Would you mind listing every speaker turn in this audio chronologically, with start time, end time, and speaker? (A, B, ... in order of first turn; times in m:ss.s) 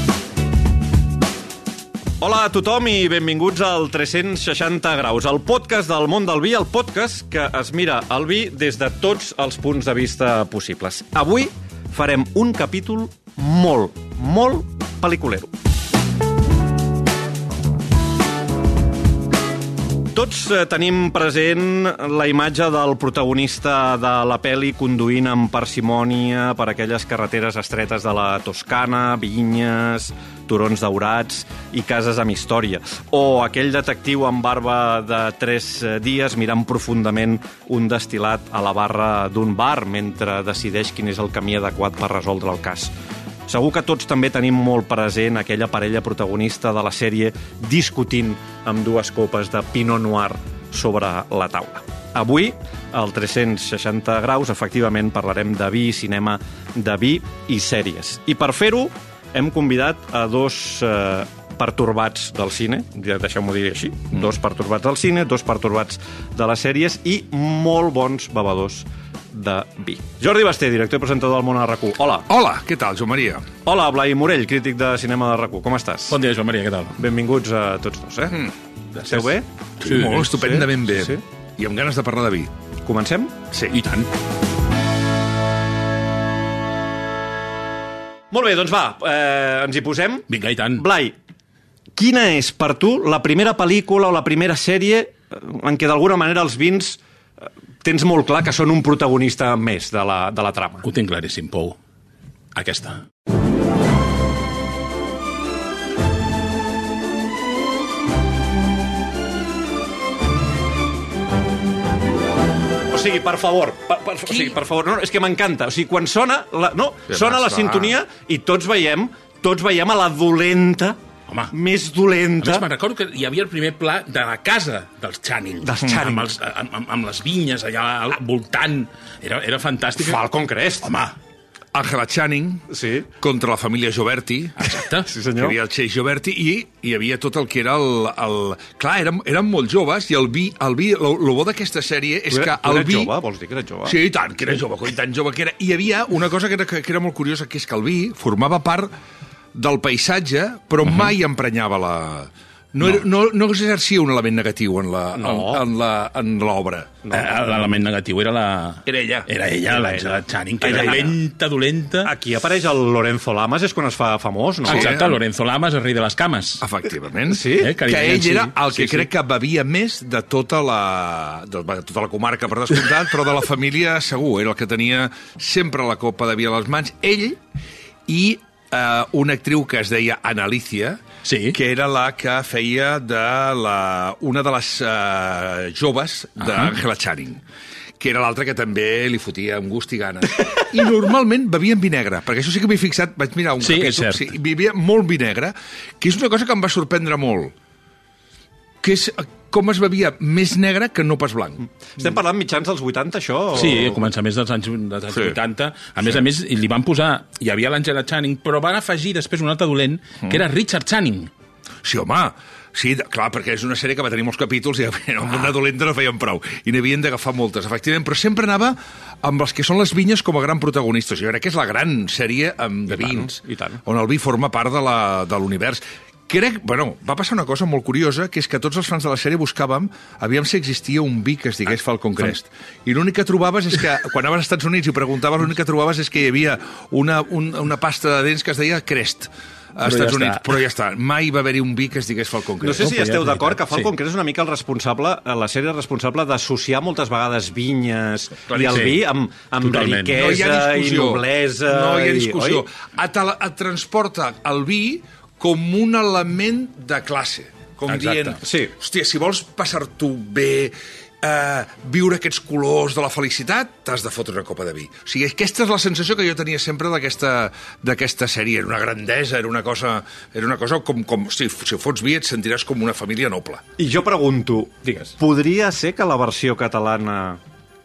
0:02.2-0:15.5 A
0:20.1-0:42.9 A
0:43.5-1:12.3 A
1:12.3-1:13.5 B
1:13.6-1:16.2 A
1:16.1-1:17.0 C
1:17.0-1:18.5 A
1:18.9-1:20.3 C
1:19.1-1:19.5 A
1:19.8-1:22.5 B
1:20.0-1:21.2 A
1:22.8-1:23.4 A
1:23.5-1:23.8 B
1:23.7-1:24.1 C
1:28.3-1:31.1 A
1:30.3-1:30.8 C
1:32.0-1:37.0 A
1:37.8-1:40.9 A
1:40.8-1:41.8 C
1:42.5-1:43.0 C
1:52.9-2:01.0 A
1:57.1-1:58.0 B
2:01.5-2:02.7 A
2:02.4-2:10.2 C
2:05.6-2:06.3 A
2:10.0-2:10.9 A
2:10.8-2:11.1 C
2:11.7-2:14.7 B
2:12.7-2:13.1 A
2:14.6-2:15.1 C
2:15.0-2:15.6 A
2:15.3-2:23.1 B
2:22.3-2:24.0 A
2:23.8-2:28.9 B
2:29.5-2:37.1 B
2:30.8-2:31.1 C
2:35.2-2:35.6 A
2:37.0-2:37.3 A
2:37.1-2:42.1 C
2:38.8-2:39.3 B
2:39.7-2:41.2 A
2:40.6-2:41.0 B
2:42.0-2:44.9 A
2:44.6-2:45.2 B
2:44.6-2:46.6 C
2:46.6-2:57.4 B
2:47.3-2:47.7 A
2:47.5-2:49.1 C
2:58.1-3:07.4 B
3:01.2-3:01.6 C
3:06.4-3:06.7 C
3:08.0-3:17.5 B
3:13.6-3:14.3 C
3:18.8-3:21.6 B
3:22.0-3:24.0 A
3:23.5-3:31.3 C
3:31.8-4:03.0 B
3:42.9-3:43.8 A
3:59.8-4:00.4 C
4:02.6-4:12.6 A
4:02.8-4:03.9 C
4:08.5-4:09.0 C
4:09.6-4:10.2 C
4:10.1-4:33.6 B
4:17.9-4:18.4 C
4:18.4-4:18.7 A
4:33.8-4:37.4 A
4:34.8-4:35.1 C